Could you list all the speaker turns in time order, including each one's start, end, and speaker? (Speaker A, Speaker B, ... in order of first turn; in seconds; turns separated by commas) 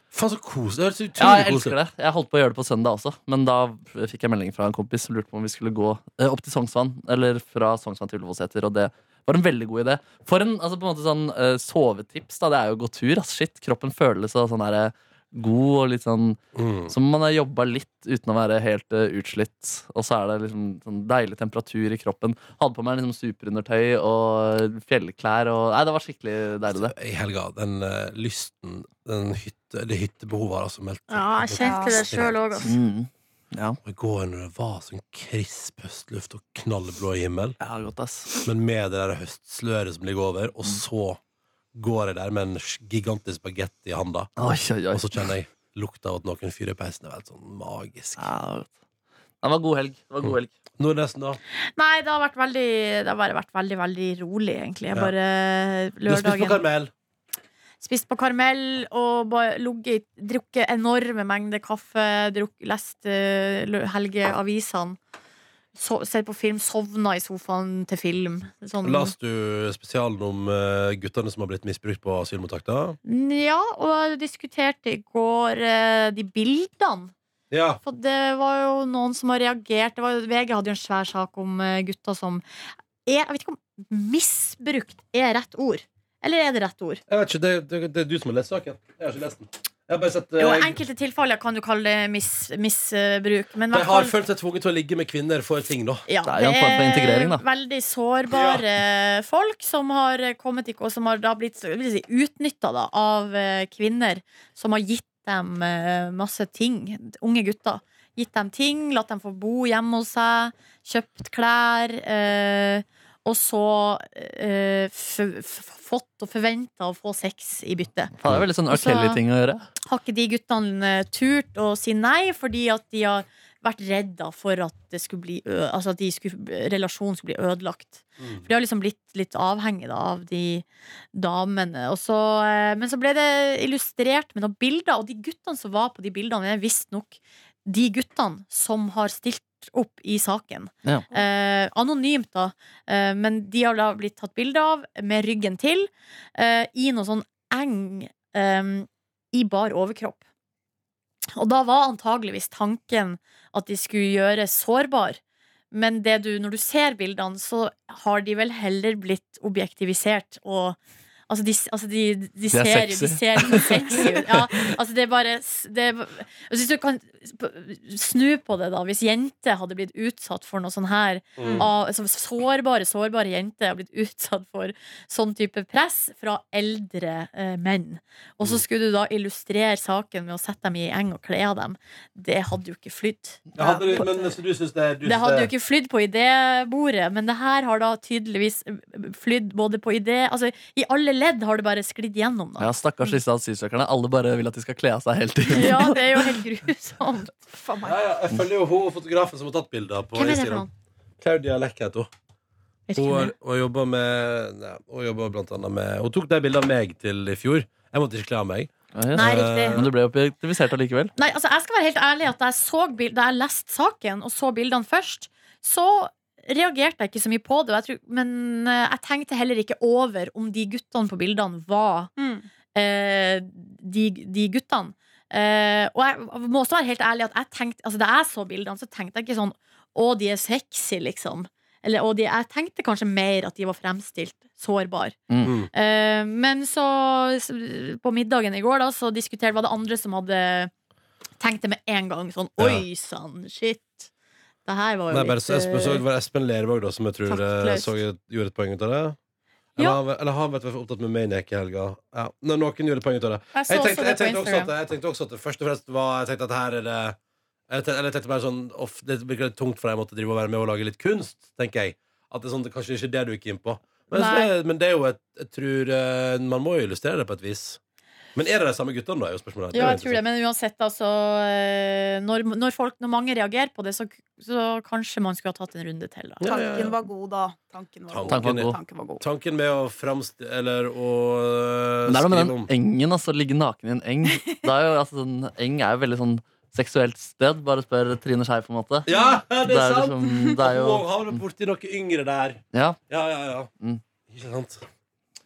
Speaker A: 0.1-1.8, Speaker B: 1.2-26.9, Speaker A: 16.6-16.9, Speaker A: 26.7-32.7, Speaker C: 31.1-32.8, Speaker D: 31.6-32.1, Speaker B: 32.6-33.8, Speaker A: 33.8-37.6, Speaker B: 37.6-38.5, Speaker A: 38.5-41.2, Speaker A: 41.8-44.3, Speaker B: 44.4-45.3, Speaker A: 44.9-48.3, Speaker B: 48.2-48.7, Speaker B: 49.4-50.5, Speaker A: 50.3-51.4, Speaker C: 51.8-56.6, Speaker A: 56.1-56.9, Speaker C: 57.8-65.0, Speaker C: 65.8-69.1, Speaker A: 68.8-73.0, Speaker C: 73.0-77.1, Speaker A: 77.5-77.8, Speaker C: 77.8-82.4, Speaker C: 83.1-87.0, Speaker A: 87.1-90.8, Speaker C: 90.4-94.2, Speaker A: 93.7-96.0, Speaker C: 96.1-118.1, Speaker B: 96.3-97.4, Speaker A: 98.3-98.7, Speaker B: 118.2-119.7, Speaker C: 118.7-119.2, Speaker C: 119.9-150.2, Speaker C: 151.3-155.2, Speaker C: 155.7-160.8, Speaker C: 161.3-184.3, Speaker B: 162.5-164.7, Speaker A: 171.4-171.7, Speaker A: 183.6-185.5, Speaker C: 185.0-193.2, Speaker B: 192.6-196.4, Speaker C: 195.5-197.4, Speaker D: 197.5-198.0, Speaker A: 197.8-200.7, Speaker C: 200.2-200.7, Speaker A: 201.2-202.1, Speaker C: 202.9-203.3, Speaker A: 203.0-209.9, Speaker B: 208.9-211.1, Speaker C: 209.1-209.8, Speaker C: 211.2-222.1, Speaker D: 222.2-222.5, Speaker C: 222.8-240.7, Speaker A: 235.4-235.7, Speaker C: 241.4-244.1, Speaker A: 242.6-242.8, Speaker C: 244.7-246.1, Speaker A: 245.1-249.2, Speaker C: 247.3-248.0, Speaker A: 249.8-257.2, Speaker C: 253.5-254.7, Speaker A: 257.7-267.8, Speaker C: 264.1-264.5, Speaker A: 268.4-270.2, Speaker C: 269.7-276.5, Speaker A: 276.4-277.0, Speaker D: 276.4-279.2, Speaker A: 278.1-282.7, Speaker B: 278.3-278.8, Speaker B: 282.1-289.1, Speaker A: 289.1-293.7, Speaker D: 289.1-289.4, Speaker B: 289.6-291.4, Speaker B: 292.7-293.0, Speaker A: 294.3-294.9